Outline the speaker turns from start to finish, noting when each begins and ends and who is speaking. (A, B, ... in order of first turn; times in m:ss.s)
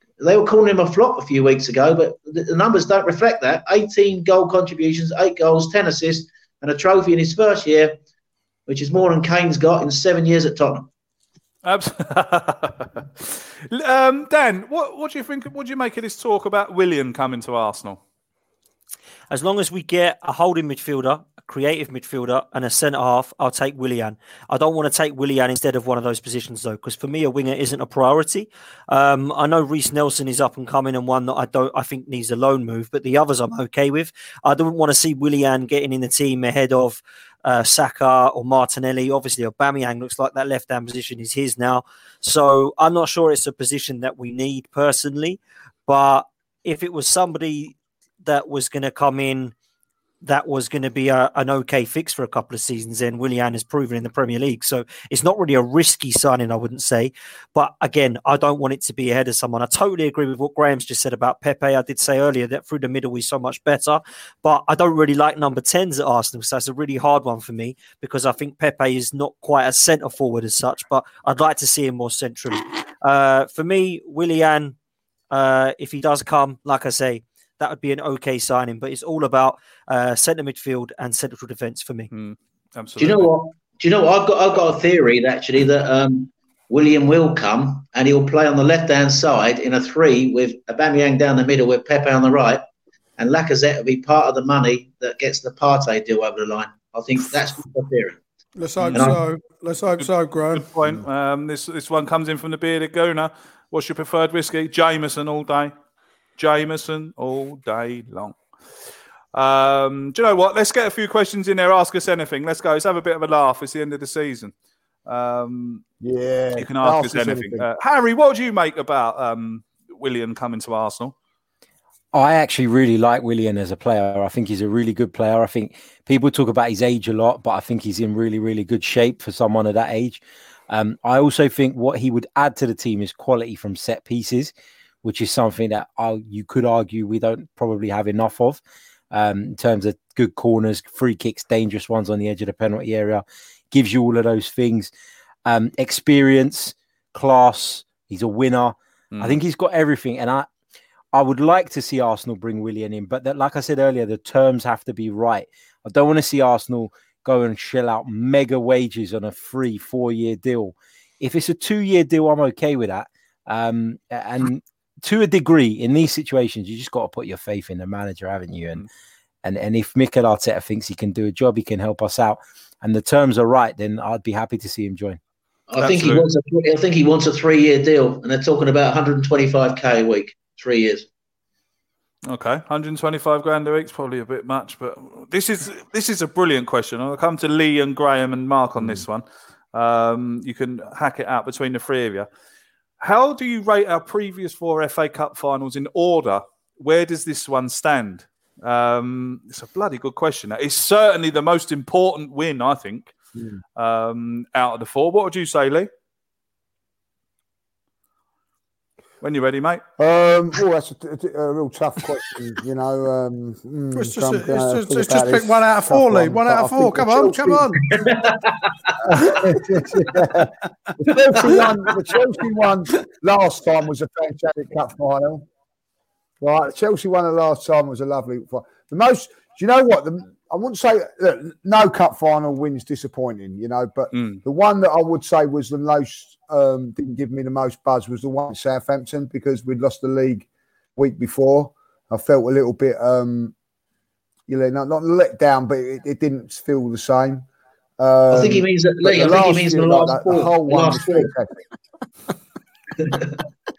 0:00.2-0:08.0 A
0:08.7-0:10.9 A
0:11.6-0:18.0 B
0:19.3-0:49.5 C
0:50.2-1:14.7 C
1:15.3-1:22.1 C
1:22.1-1:23.3 B
1:23.0-1:32.6 A
1:33.2-1:38.2 A
1:38.6-1:40.7 D
1:38.8-1:39.2 B
1:40.0-1:45.7 B
1:46.4-1:48.4 B
1:49.3-1:54.5 B
1:55.0-1:55.8 B
1:56.0-1:57.6 E
1:56.6-2:01.1 B
2:02.1-2:18.6 F
2:19.1-2:24.9 F
2:25.4-2:30.5 F
2:29.1-2:29.4 B
2:31.1-2:48.8 F
2:49.4-2:55.2 F
2:55.7-3:01.0 A
2:55.8-2:56.2 B
3:02.3-3:12.3 B
3:08.8-3:09.0 E
3:13.0-3:23.1 B
3:23.3-3:23.6 E
3:23.8-3:25.9 B
3:29.2-3:29.8 B
3:30.0-3:37.7 E
3:33.9-3:37.9 D
3:37.9-3:38.9 A
3:39.0-3:45.4 E
3:46.4-4:03.5 E
3:54.1-3:54.4 B
4:04.5-4:07.4 E
4:08.0-4:11.6 E
4:08.3-4:11.3 A
4:13.0-4:13.3 A